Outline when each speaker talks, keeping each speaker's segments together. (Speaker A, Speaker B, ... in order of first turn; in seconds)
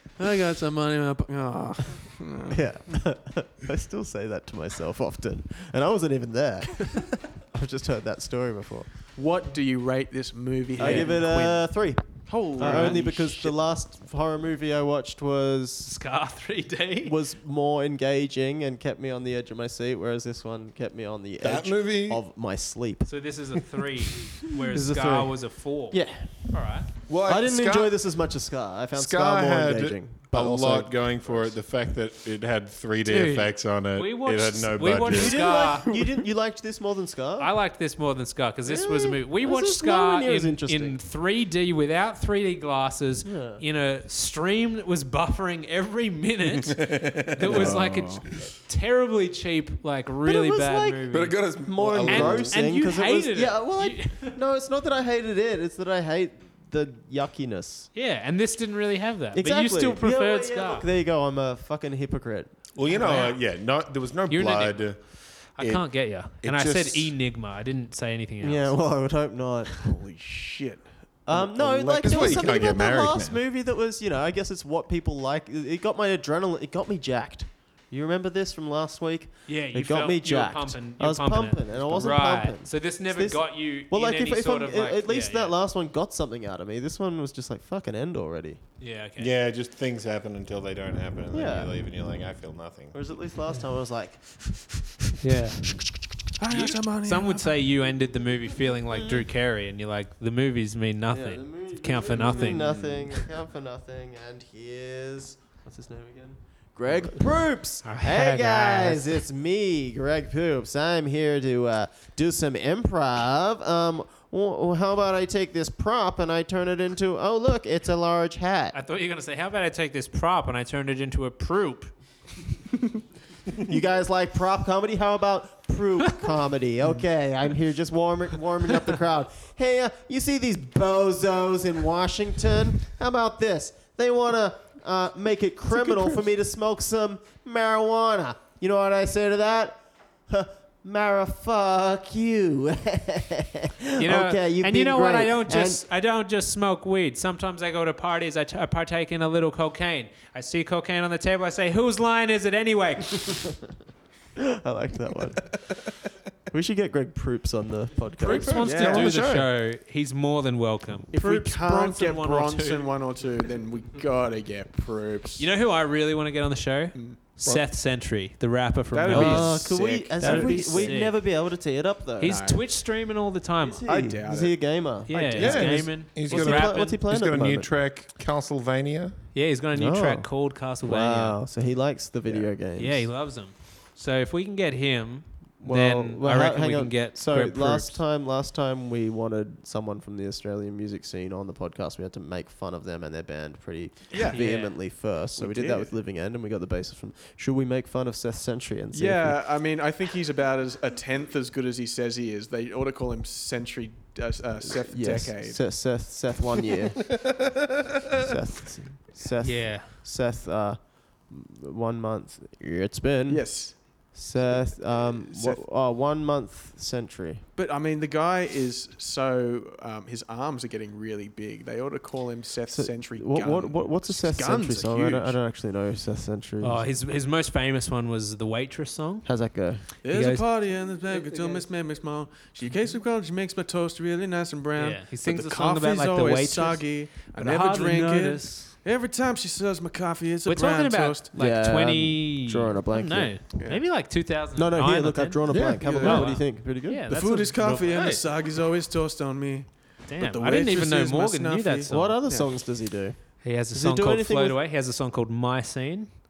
Speaker A: 0.2-2.6, 9.1-13.6, 35.8-36.2, 69.8-72.7, 96.4-97.5, 102.1-102.9, 135.8-136.2, 158.3-159.4, 161.1-165.5, 166.9-167.6, 168.9-171.0, 172.2-172.6, 173.6-175.6, 194.1-194.5, 195.3-195.9, 198.9-206.1, 213.3-215.6, 217.6-225.4, 230.0-241.3, 243.5-243.8, 245.8-246.3, 247.1-252.5
Speaker B: 2.5-8.9, 10.8-15.9, 17.0-23.1, 24.5-26.6, 27.2-31.5, 35.0-37.5, 38.6-41.0, 43.2-43.6, 47.5-47.8, 50.2-57.9, 59.3-62.6, 68.4-69.8, 71.2-88.6, 91.3-91.8, 92.9-94.6, 98.9-99.2, 101.1-118.8, 123.5-145.8, 154.4-155.8, 156.5-159.4, 169.1-172.4, 173.8-177.7, 179.7-183.1, 185.6-199.4, 204.8-207.3, 208.2-217.4, 222.7-226.9, 229.2-229.8, 241.3-243.3, 244.6-247.1, 251.9-254.6
Speaker C: 10.8-11.1, 12.6-13.0, 15.8-17.1, 23.1-26.9, 33.0-35.9, 37.4-51.4, 52.0-54.4, 57.9-60.9, 62.9-63.5, 64.3-69.0, 79.5-85.5, 88.8-89.3, 95.2-95.8, 96.5-102.7, 107.8-109.2, 118.7-121.9, 144.0-153.4, 158.2-162.9, 165.4-171.2, 172.2-174.1, 175.1-177.0, 179.3-181.4, 182.7-188.0, 194.2-194.8, 209.4-209.9, 226.6-229.3, 229.8-231.7, 234.8-238.7, 240.4-248.2, 250.0-252.2, 253.4-256.2
Speaker D: 21.4-22.2, 27.1-28.0, 28.9-35.5, 46.6-48.5, 51.1-52.6, 62.7-67.1, 72.0-73.4, 89.2-93.1, 175.2-179.2, 245.5-245.8